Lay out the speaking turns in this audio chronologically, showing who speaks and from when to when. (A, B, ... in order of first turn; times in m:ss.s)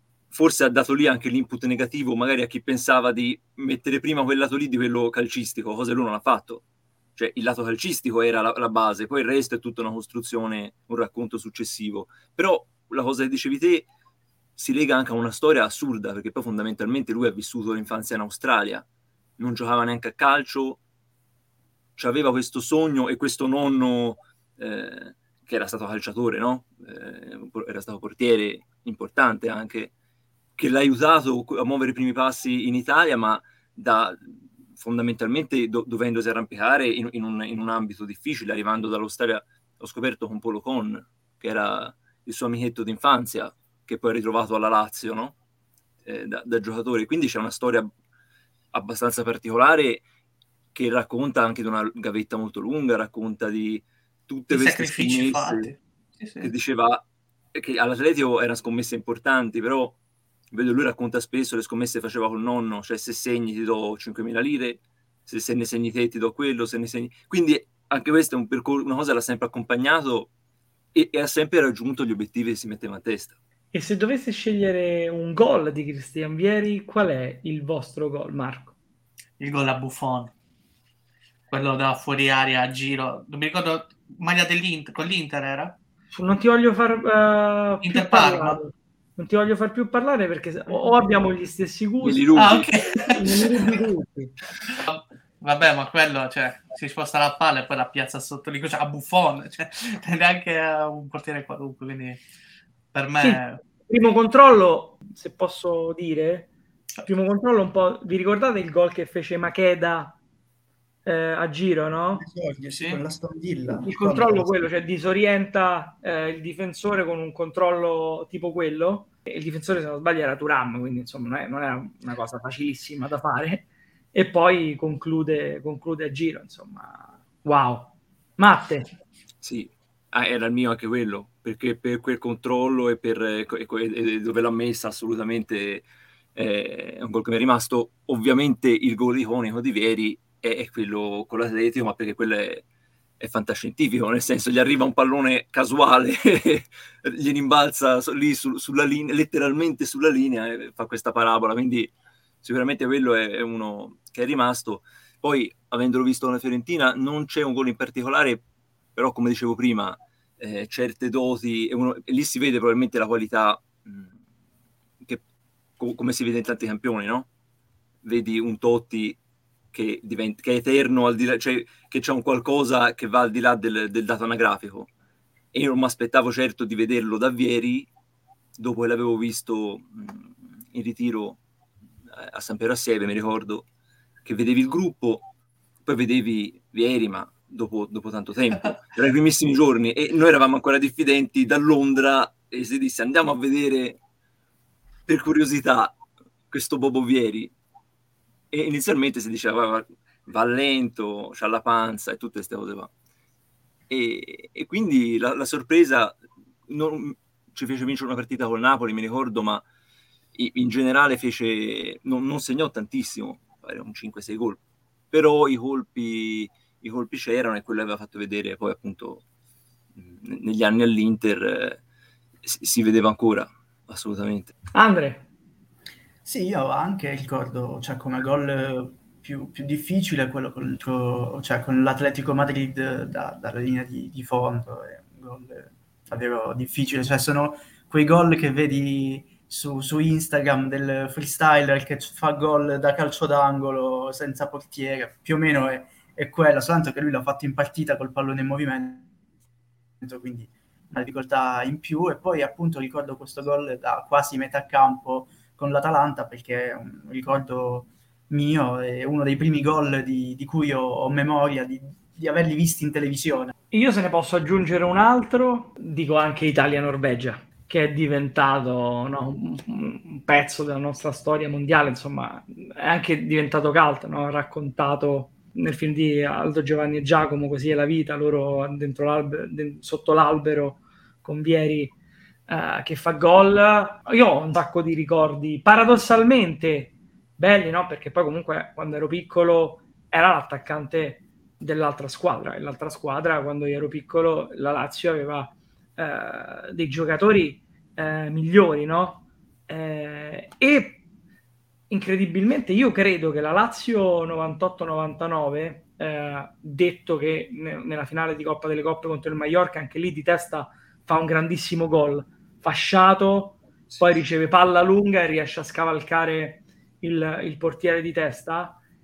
0:00.3-0:06.6 A
0:07.2-0:13.9 A
0:14.6-0:18.8 A
0:19.4-0:20.8 A
0:22.0-0:29.9 A
0:30.6-0:45.3 A
0:46.0-0:47.9 A
0:48.7-0:50.0 A
0:50.7-0:55.7 A
0:54.5-0:56.5 B
0:56.4-1:00.0 A
1:00.5-1:10.3 A
1:10.9-1:13.3 A
1:13.7-1:18.7 C
1:19.4-1:20.3 B
1:21.5-1:25.7 B
1:26.1-1:32.4 C
1:27.8-1:28.6 B
1:32.0-1:32.7 A
1:32.4-1:33.8 B
1:33.1-1:34.3 C
1:34.8-1:42.2 B
1:42.9-1:43.6 B
1:43.2-1:46.5 C
1:47.0-1:50.2 C
1:51.0-1:52.2 C
1:52.2-1:54.7 D
1:53.7-2:08.9 C
2:09.4-2:22.6 A
2:23.2-2:31.9 A
2:32.4-2:38.4 A
2:38.9-2:44.1 A
2:45.8-2:47.3 A
2:48.0-2:49.2 A
2:49.7-2:54.9 A
2:55.5-2:57.9 A
2:58.6-3:01.4 A
3:02.1-3:03.6 A
3:04.2-3:05.2 A
3:05.8-3:14.0 A
3:15.1-3:16.0 A
3:16.5-3:17.5 A
3:18.5-3:22.9 A
3:23.9-3:29.6 A
3:30.3-3:34.6 A
3:35.1-3:39.2 A
3:40.0-3:41.8 A
3:42.4-3:44.5 A
3:44.7-3:45.2 C
3:46.2-4:09.1 D
4:10.0-4:23.5 D
4:23.7-4:41.9 C
4:42.5-5:01.0 C
5:01.9-5:18.8 C